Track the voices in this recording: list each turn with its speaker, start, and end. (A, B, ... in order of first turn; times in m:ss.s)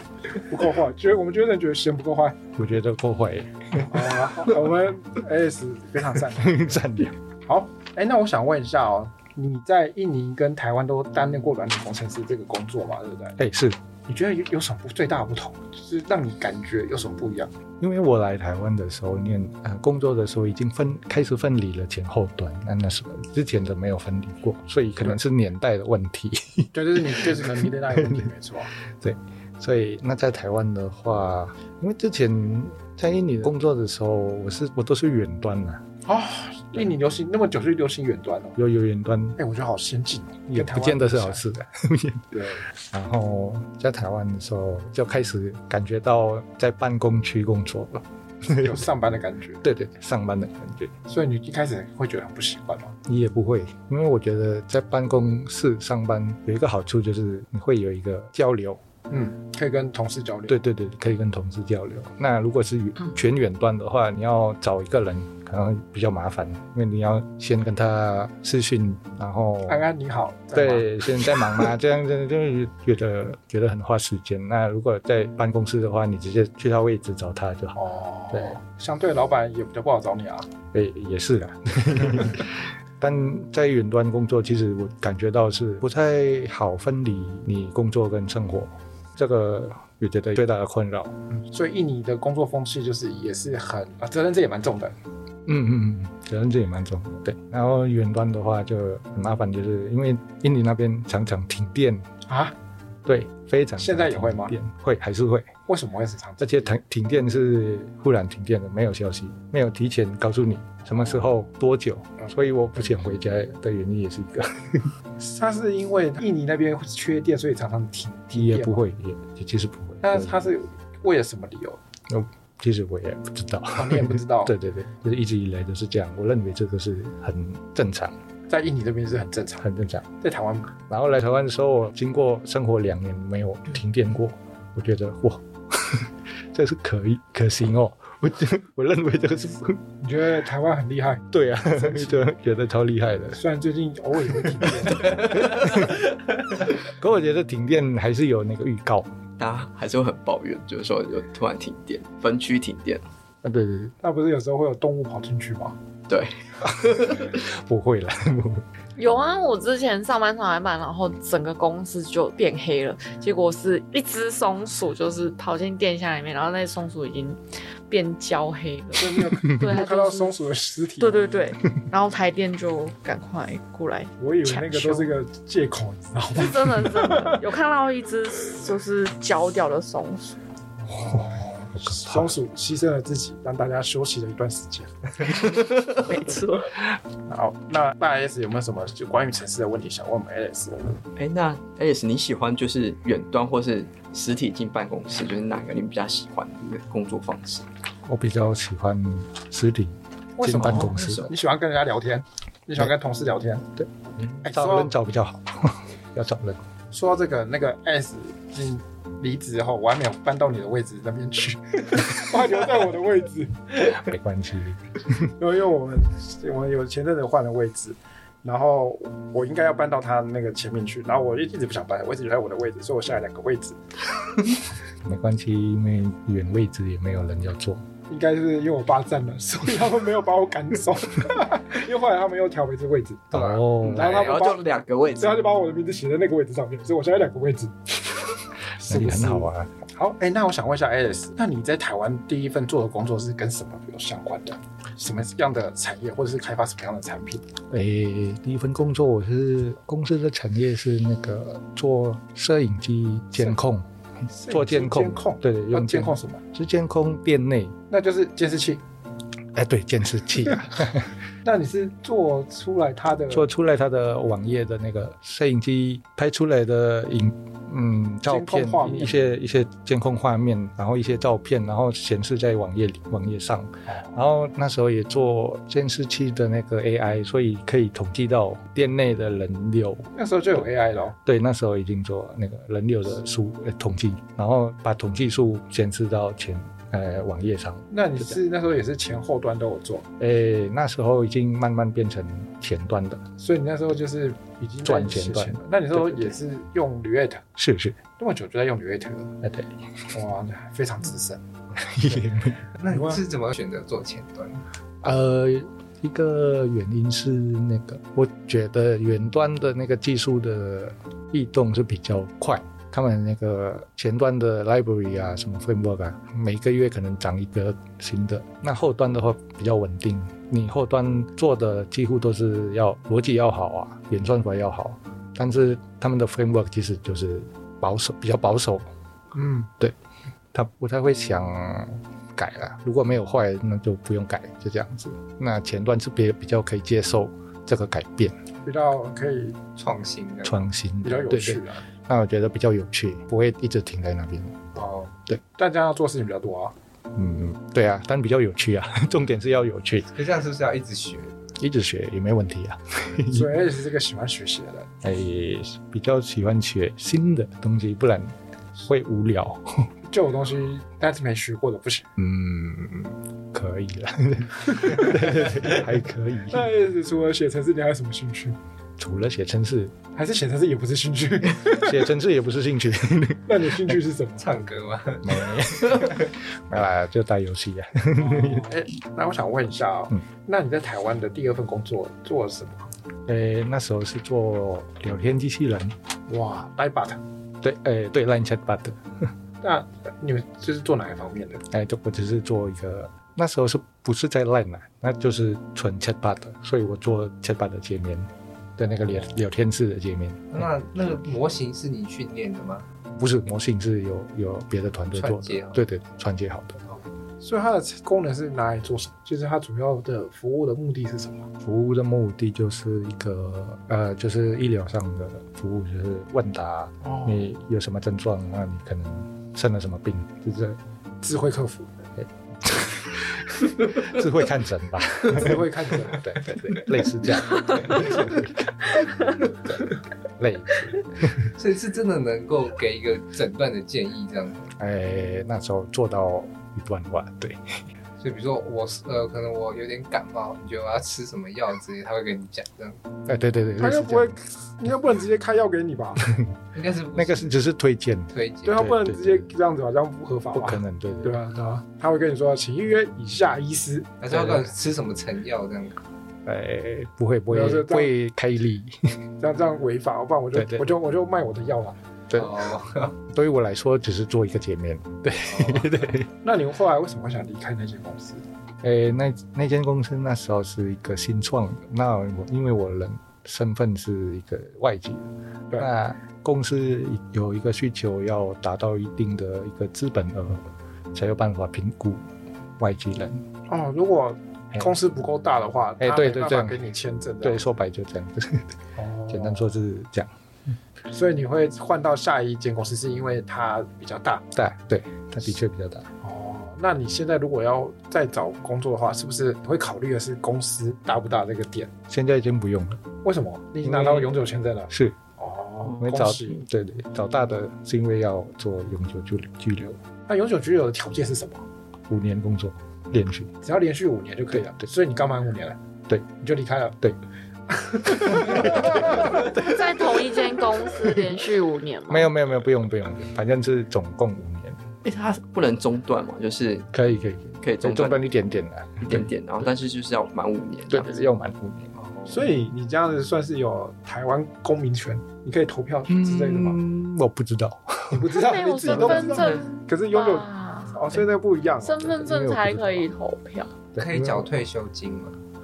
0:00.4-0:02.4 A
0:02.6-0:04.6 B
0:03.9-0:06.8 A
0:06.3-0:07.2 B
0:07.4-0:13.4 A
0:13.4-0:13.8 B
0:14.1-0:17.5 A
0:17.8-0:28.3 B
0:26.7-0:28.7 A
0:29.0-0:35.8 B
0:36.1-0:38.6 A
0:38.6-0:39.4 B
0:39.4-0:41.4 A
0:40.5-0:48.9 B
0:42.3-0:42.7 A
0:48.5-0:49.6 A
0:49.6-0:50.9 B
0:51.1-0:53.0 A
0:53.1-0:58.8 B
0:59.1-1:00.6 A
1:00.5-1:09.9 B
1:09.7-1:10.9 A
1:10.5-1:17.8 B
1:17.8-1:20.5 A
1:18.3-1:18.6 B
1:20.7-1:31.1 B
1:31.3-1:35.0 A
1:35.5-1:42.1 B
1:42.3-1:42.6 A
1:43.1-1:45.5 B
1:43.8-1:44.5 A
1:45.7-1:46.8 A
1:46.4-1:54.9 B
1:52.2-1:53.1 A
1:55.2-1:58.8 A
1:58.3-2:00.5 B
2:00.0-2:01.8 A
2:02.1-2:08.2 B
2:03.8-2:04.5 A
2:08.5-2:09.7 A
2:09.6-2:10.0 B
2:10.2-2:10.7 A
2:10.9-2:19.8 B
2:20.0-2:22.2 A
2:21.3-2:23.4 B
2:23.3-2:25.5 A
2:24.5-2:24.9 B
2:25.5-2:25.9 B
2:26.8-2:29.1 B
2:29.4-2:33.0 C
2:33.4-2:33.9 B
2:34.0-2:35.8 A
2:36.1-2:37.4 C
2:37.2-2:38.6 B
2:39.0-2:50.4 D
2:48.9-2:51.2 A
2:51.0-2:55.1 D
2:54.2-2:57.4 A
2:56.4-3:00.4 D
3:00.8-3:04.9 A
3:01.9-3:02.3 B
3:05.3-3:06.0 C
3:06.0-3:06.8 D
3:07.3-3:11.0 A
3:11.2-3:17.7 C
3:18.0-3:21.3 B
3:20.4-3:23.7 A
3:20.6-3:21.3 C
3:24.4-3:26.6 B
3:24.4-3:24.9 A
3:26.9-3:33.9 A
3:33.9-3:35.3 B
3:35.4-3:43.8 A
3:45.0-3:47.8 B
3:48.1-3:54.7 A
3:53.3-3:54.1 B
3:53.3-3:54.3 E
3:53.9-3:55.4 C
3:55.2-3:58.1 A
3:58.8-4:07.5 A
3:58.8-3:59.7 B
4:07.7-4:13.9 B
4:14.3-4:16.4 A
4:14.5-4:17.8 B
4:17.9-4:18.8 A
4:19.5-4:21.1 B
4:21.4-4:23.5 A
4:23.3-4:40.1 B
4:28.3-4:29.2 A
4:40.1-4:41.2 A
4:41.2-4:48.4 B
4:47.9-4:50.1 A
4:50.2-4:53.2 B
4:53.4-4:57.5 A
4:54.8-4:56.4 B
4:57.6-4:58.0 B
4:58.1-4:59.3 A
4:59.4-4:59.8 B
5:00.1-5:01.4 A
5:01.8-5:02.6 B
5:02.8-5:04.6 E
5:02.9-5:03.2 A
5:05.0-5:28.9 B
5:29.4-5:29.7 A
5:30.5-5:38.4 B
5:38.6-5:39.6 A
5:39.8-5:40.7 E
5:40.4-5:44.8 B
5:41.0-5:41.8 A
5:45.4-5:46.8 A
5:47.2-5:50.1 B
5:50.1-5:51.6 E
5:51.6-5:53.6 B
5:53.3-5:54.9 A
5:55.0-5:58.3 B
5:58.9-5:59.9 B
6:00.1-6:02.1 A
6:02.2-6:06.7 B
6:05.0-6:05.2 A
6:06.5-6:08.6 A
6:09.0-6:10.0 B
6:10.1-6:12.0 A
6:11.8-6:14.0 B
6:13.5-6:14.5 A
6:14.4-6:16.3 E
6:15.2-6:18.7 B
6:18.2-6:22.9 A
6:23.3-6:26.0 B
6:26.3-6:27.2 A
6:27.6-6:29.3 B
6:29.6-6:31.6 A
6:31.7-6:40.7 B
6:40.5-6:42.9 E
6:43.2-6:46.8 B
6:45.1-6:45.8 E
6:47.4-6:51.5 A
6:51.6-7:00.8 B
6:57.0-6:57.4 A
7:01.2-7:01.9 A
7:02.2-7:09.8 B
7:05.3-7:06.3 A
7:10.4-7:11.5 B
7:11.6-7:14.7 E
7:14.8-7:17.8 B
7:18.2-7:23.0 E
7:23.3-7:24.4 B
7:23.8-7:26.2 A
7:26.2-7:26.5 B
7:26.7-7:27.5 E
7:27.2-7:29.5 B
7:28.3-7:28.9 E
7:28.7-7:34.6 A
7:30.5-7:31.4 B
7:34.2-7:36.0 E
7:36.5-7:39.0 B
7:37.5-7:38.1 A
7:39.4-7:42.0 A
7:40.5-7:40.9 B
7:42.3-7:43.2 E
7:43.3-7:46.3 B
7:45.4-7:46.1 E
7:46.4-7:48.4 A
7:48.8-8:02.3 B
8:02.8-8:03.4 B
8:03.7-8:07.6 A
8:06.0-8:06.8 B
8:07.4-8:08.8 B
8:09.0-8:09.8 A
8:09.3-8:10.3 B
8:11.1-8:14.4 A
8:14.5-8:16.1 B
8:16.2-8:21.9 A
8:22.1-8:23.0 B
8:23.2-8:26.6 A
8:23.8-8:24.4 B
8:24.9-8:25.2 B
8:26.0-8:30.0 B
8:30.3-8:31.6 A
8:32.1-8:33.5 B
8:33.6-8:35.8 A
8:36.3-8:37.0 A
8:37.7-8:39.5 A
8:38.3-8:39.5 B
8:39.6-8:42.3 D
8:42.1-8:44.8 B
8:45.0-8:46.9 C
8:46.9-8:49.3 B
8:47.6-8:48.2 C
8:49.0-8:51.2 C
8:50.9-8:52.0 B
8:52.3-8:56.8 A
8:56.1-8:58.4 B
8:58.1-9:02.2 A
8:58.4-9:01.0 D
8:58.9-8:59.2 B
8:59.3-8:59.7 C
9:01.8-9:03.7 D
9:02.2-9:03.1 B
9:04.0-9:04.5 B
9:04.0-9:05.4 E